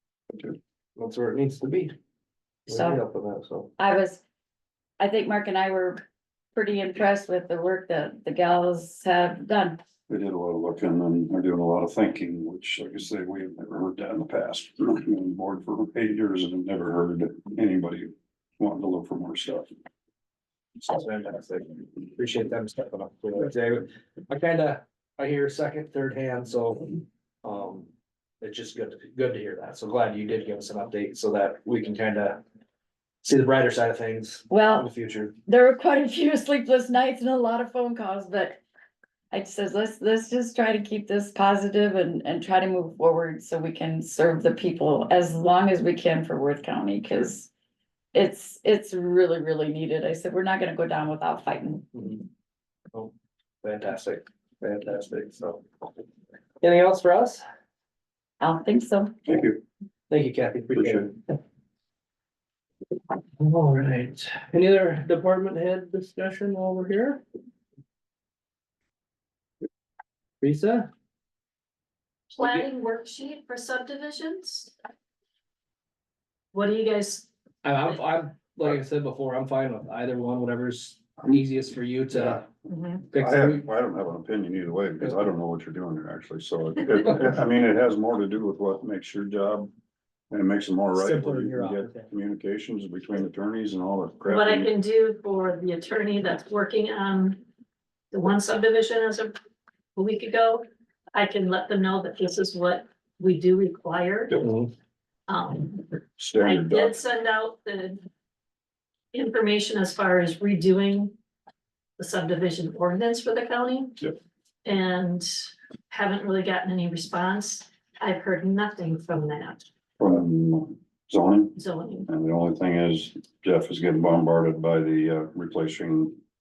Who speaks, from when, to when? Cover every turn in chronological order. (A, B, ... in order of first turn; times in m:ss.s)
0:01.0-0:02.0 A
0:02.7-0:03.7 A
0:02.7-0:03.0 B
0:03.8-0:04.2 B
0:05.0-0:09.8 B
0:10.1-0:19.8 C
0:20.8-0:27.9 A
0:28.4-0:32.4 A
0:33.2-0:35.4 A
0:34.5-0:34.9 B
0:35.5-0:38.6 B
0:39.3-0:47.5 B
0:48.1-0:51.9 B
0:51.9-0:52.2 A
0:53.6-0:55.8 A
0:56.6-0:57.4 A
0:58.4-0:59.2 B
0:59.3-0:59.6 C
1:00.1-1:01.4 A
1:00.8-1:01.1 C
1:03.4-1:07.2 A
1:10.4-1:10.9 A
1:12.3-1:14.7 D
1:16.5-1:17.3 D
1:17.6-1:22.5 A
1:22.1-1:22.4 C
1:22.7-1:23.0 D
1:23.1-1:23.7 A
1:23.1-1:29.7 C
1:30.3-1:34.7 C
1:31.0-1:32.1 A
1:34.3-1:37.4 D
1:38.1-1:39.4 D
1:40.0-1:44.4 D
1:44.4-1:44.7 A
1:45.3-1:48.0 D
1:46.2-1:47.0 C
1:49.1-1:51.2 D
1:52.0-1:54.0 D
1:54.6-1:59.7 D
2:00.0-2:06.2 C
2:01.6-2:02.1 D